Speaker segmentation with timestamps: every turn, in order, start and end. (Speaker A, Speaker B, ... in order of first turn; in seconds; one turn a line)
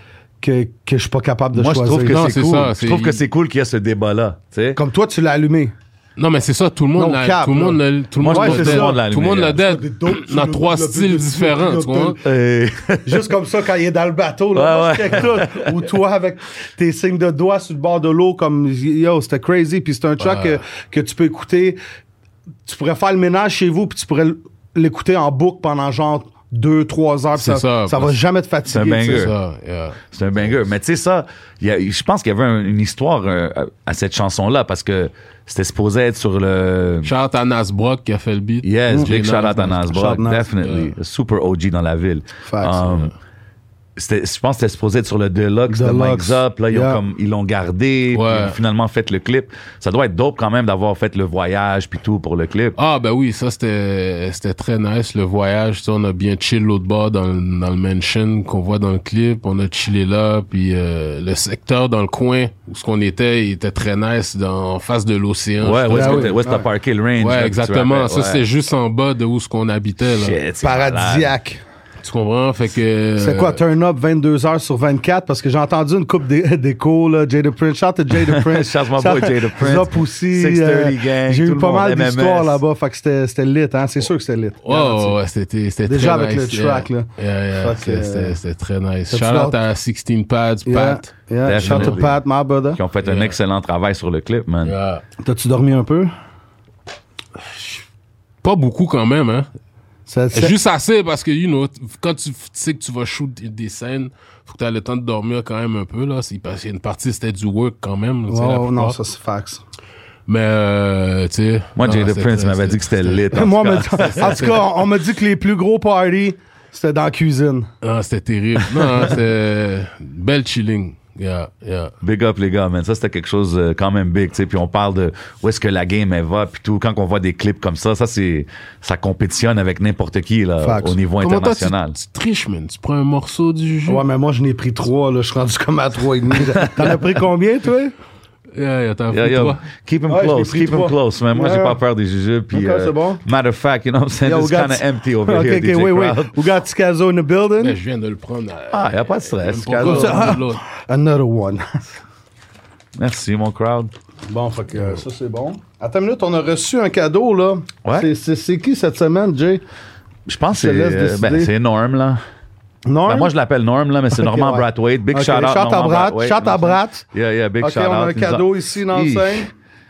Speaker A: 0.4-2.3
Speaker B: 1.5-4.8
Speaker C: 2.1-3.2
Speaker A: 4.8-5.7
Speaker C: 6.2-12.2
Speaker A: 7.0-12.2
Speaker B: 8.2-9.6
Speaker B: 12.2-13.3
Speaker A: 13.1-21.8
Speaker B: 14.5-15.8
Speaker C: 20.2-20.6
Speaker A: 22.7-29.3
Speaker C: 27.4-28.1
Speaker B: 28.7-29.3
Speaker C: 29.1-30.5
Speaker B: 30.1-37.1
Speaker C: 37.0-40.0
Speaker B: 38.6-43.1
Speaker A: 39.9-40.5
Speaker C: 40.6-40.9
Speaker A: 42.5-42.9
Speaker B: 44.0-52.8
Speaker A: 45.7-47.0
Speaker C: 48.1-48.6
Speaker C: 52.8-66.4
Speaker B: 65.6-68.4
Speaker A: 65.9-66.7
Speaker C: 67.2-70.4
Speaker B: 70.1-71.3
Speaker A: 70.6-71.6
Speaker C: 72.0-73.6
Speaker A: 73.2-85.2
Speaker B: 78.3-82.6
Speaker C: 84.6-92.0
Speaker A: 85.9-88.4
Speaker A: 89.1-89.6
Speaker A: 90.7-92.8
Speaker B: 91.4-92.2
Speaker B: 92.7-94.8
Speaker C: 93.0-93.4
Speaker C: 94.6-95.0
Speaker A: 95.2-96.1
Speaker C: 97.4-97.8
Speaker C: 98.4-99.5
Speaker A: 100.1-100.5
Speaker C: 100.3-109.0
Speaker A: 108.3-109.6
Speaker C: 110.3-113.3
Speaker B: 111.8-114.6
Speaker A: 113.3-117.7
Speaker C: 114.0-114.6
Speaker C: 117.8-121.9
Speaker B: 122.0-132.0
Speaker A: 130.6-131.0
Speaker C: 131.2-134.0
Speaker A: 133.9-137.9
Speaker B: 136.5-137.1
Speaker C: 138.6-139.6
Speaker B: 139.1-146.3
Speaker A: 140.1-141.8
Speaker A: 142.5-143.2
Speaker A: 144.2-147.8
Speaker C: 147.6-150.6
Speaker B: 148.7-150.4
Speaker A: 149.8-151.8
Speaker B: 153.0-153.9
Speaker A: 154.3-159.6
Speaker B: 160.3-162.2
Speaker A: 160.5-161.5
Speaker A: 162.9-163.3
Speaker B: 163.1-169.5
Speaker A: 164.1-167.1
Speaker A: 167.6-169.5